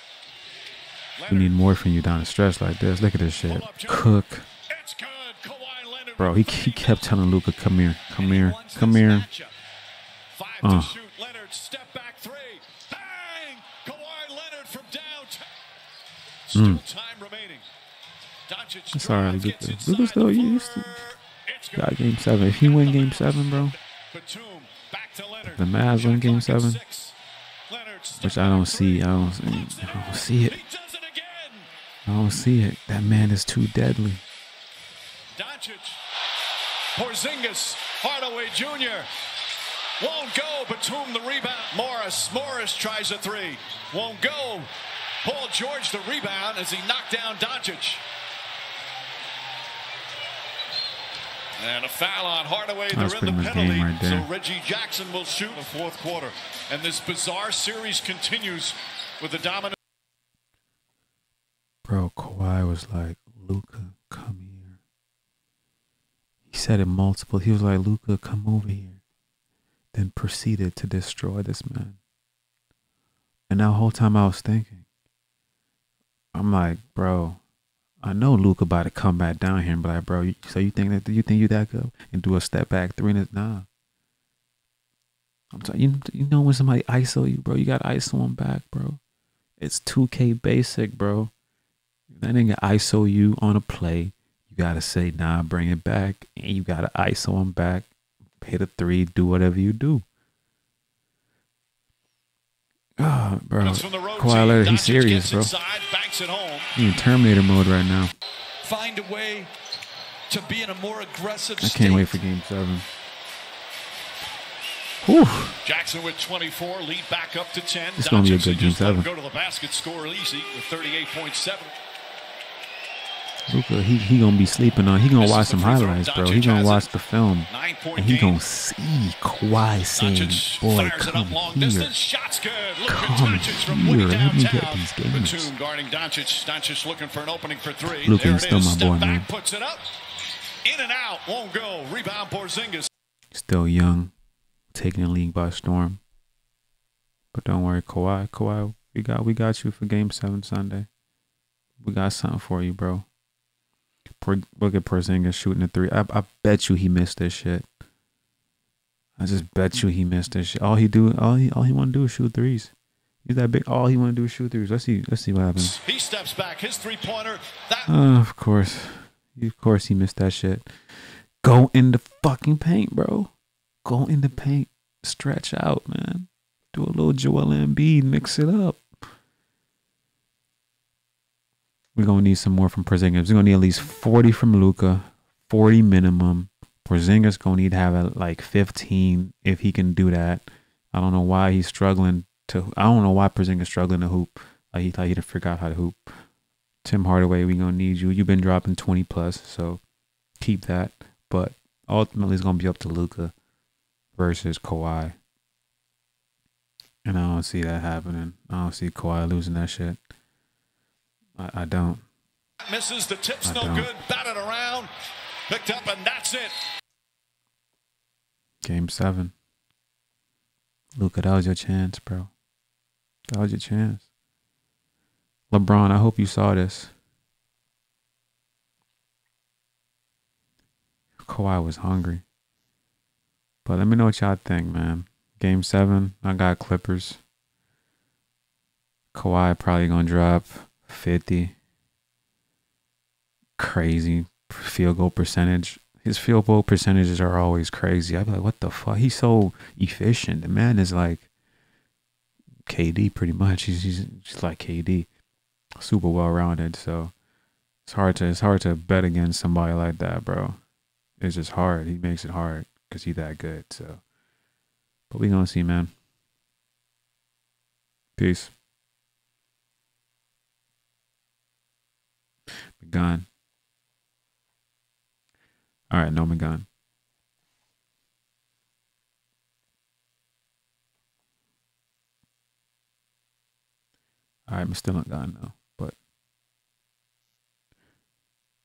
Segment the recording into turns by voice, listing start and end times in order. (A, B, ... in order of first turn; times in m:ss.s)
0:01.2-0:01.6 A
0:01.3-0:04.5 B
0:03.4-0:07.0 A
0:06.2-0:09.3 B
0:08.1-0:09.5 C
0:10.3-0:15.5 A
0:10.6-0:11.0 B
0:16.5-0:17.7 A
0:16.5-0:16.8 B
0:18.5-0:27.2 A
0:18.9-0:21.0 B
0:21.8-0:23.8 B
0:25.4-0:26.8 B
0:27.7-0:31.7 A
0:28.2-0:30.6 B
0:32.1-0:34.2 B
0:35.3-0:36.0 A
0:36.9-0:39.1 A
0:40.0-0:44.7 A
0:45.2-0:48.0 A
0:51.6-0:59.8 A
0:52.9-0:54.3 B
1:01.8-1:04.8 B
1:06.5-1:09.0 B
1:09.9-1:12.0 B
1:13.5-1:14.8 B
1:16.3-1:17.4 B
1:18.0-1:23.7 B
1:25.5-1:29.0 B
1:29.6-1:31.3 B
1:32.1-1:37.9 B
1:38.4-1:40.0 B
1:43.0-1:45.6 B
1:43.6-1:46.7 A
1:46.8-1:48.1 B
1:48.6-1:49.5 C
1:50.3-1:52.2 C
1:51.6-1:52.9 B
1:55.0-1:55.6 B
1:55.6-2:01.8 A
1:58.0-1:59.1 B
2:03.5-2:12.0 B
2:05.2-2:06.9 A
2:07.5-2:08.4 A
2:09.9-2:19.9 A
2:12.9-2:15.5 B
2:17.8-2:19.3 B
2:20.6-2:22.9 A
2:23.3-2:24.1 B
2:24.7-2:26.0 B
2:27.3-2:30.9 B
2:31.8-2:33.1 B
2:34.2-2:37.7 B
2:39.2-2:42.7 B
2:43.2-2:45.8 B
2:45.6-2:47.9 A
2:47.9-2:53.3 B
2:53.8-2:58.8 B
3:01.9-3:16.1 B
3:16.8-3:19.8 B
3:20.4-3:23.3 B
3:24.2-3:25.2 B
3:27.0-3:30.0 B
3:31.4-3:32.0 B
3:32.7-3:34.9 A
3:33.4-3:33.9 B
3:35.5-3:36.6 A
3:38.6-3:39.3 B
3:40.9-3:42.3 B
3:43.3-3:44.1 B
3:45.5-3:46.9 B
3:51.2-3:52.2 B
3:53.6-3:57.2 B
3:59.1-4:01.6 B
4:03.6-4:11.3 B
4:12.7-4:15.1 B
4:15.8-4:17.1 B
4:17.8-4:20.6 B
4:21.2-4:24.0 B
4:25.1-4:25.9 B
4:28.2-4:28.5 B
4:32.8-4:33.3 B
4:35.9-4:36.7 B
4:44.5-4:46.0 B